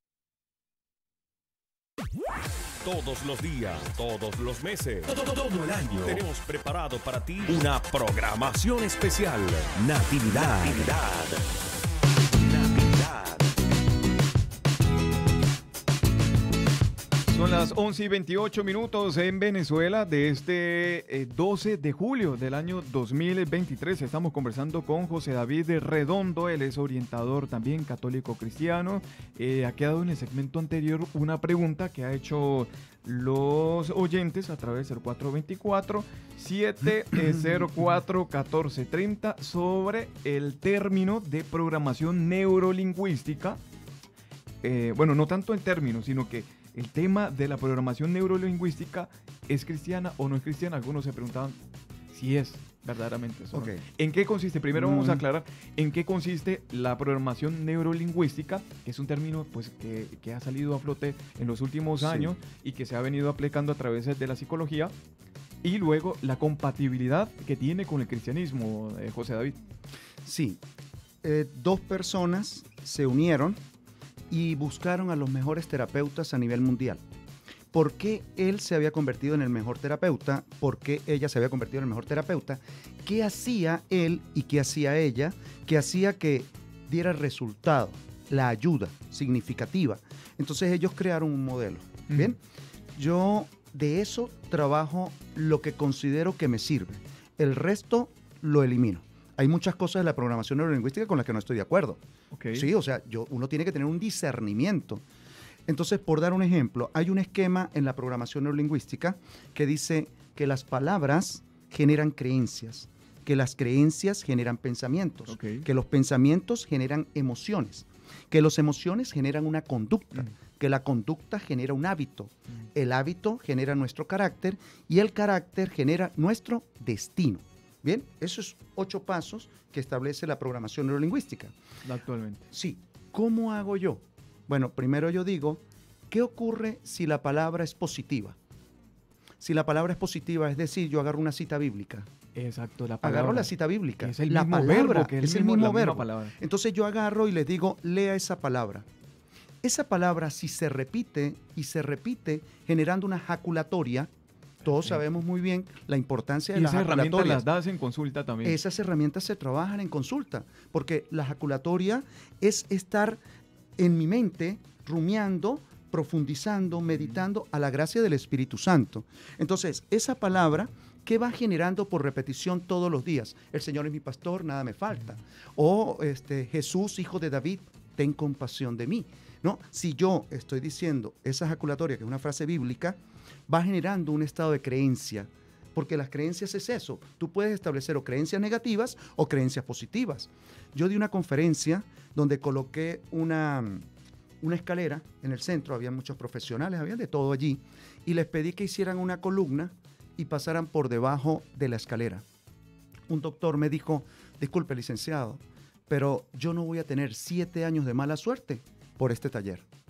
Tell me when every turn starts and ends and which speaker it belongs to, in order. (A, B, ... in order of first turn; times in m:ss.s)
0:02.8-0:11.4 A
0:12.4-0:13.5 A
0:17.3-0:43.6 B
0:44.6-0:51.6 B
0:52.1-1:04.9 B
0:53.5-0:53.8 C
0:54.7-0:55.2 C
1:02.0-1:02.3 C
1:05.6-1:09.6 B
1:10.2-1:10.6 C
1:11.2-1:13.6 C
1:14.3-1:17.0 C
1:17.7-1:32.4 C
1:32.1-1:32.3 B
1:33.0-1:42.0 C
1:42.3-1:42.7 B
1:42.5-1:45.0 C
1:45.7-2:11.5 C
1:55.3-1:55.6 B
2:11.8-2:12.4 B
2:12.5-2:18.4 C
2:19.4-2:22.1 C
2:22.3-2:26.4 B
2:23.0-2:28.9 C
2:29.6-2:34.1 C
2:34.6-2:37.4 C
2:36.5-2:38.6 B
2:38.4-2:43.2 C
2:43.8-3:13.9 C
3:14.4-3:22.2 C
3:23.1-3:29.6 C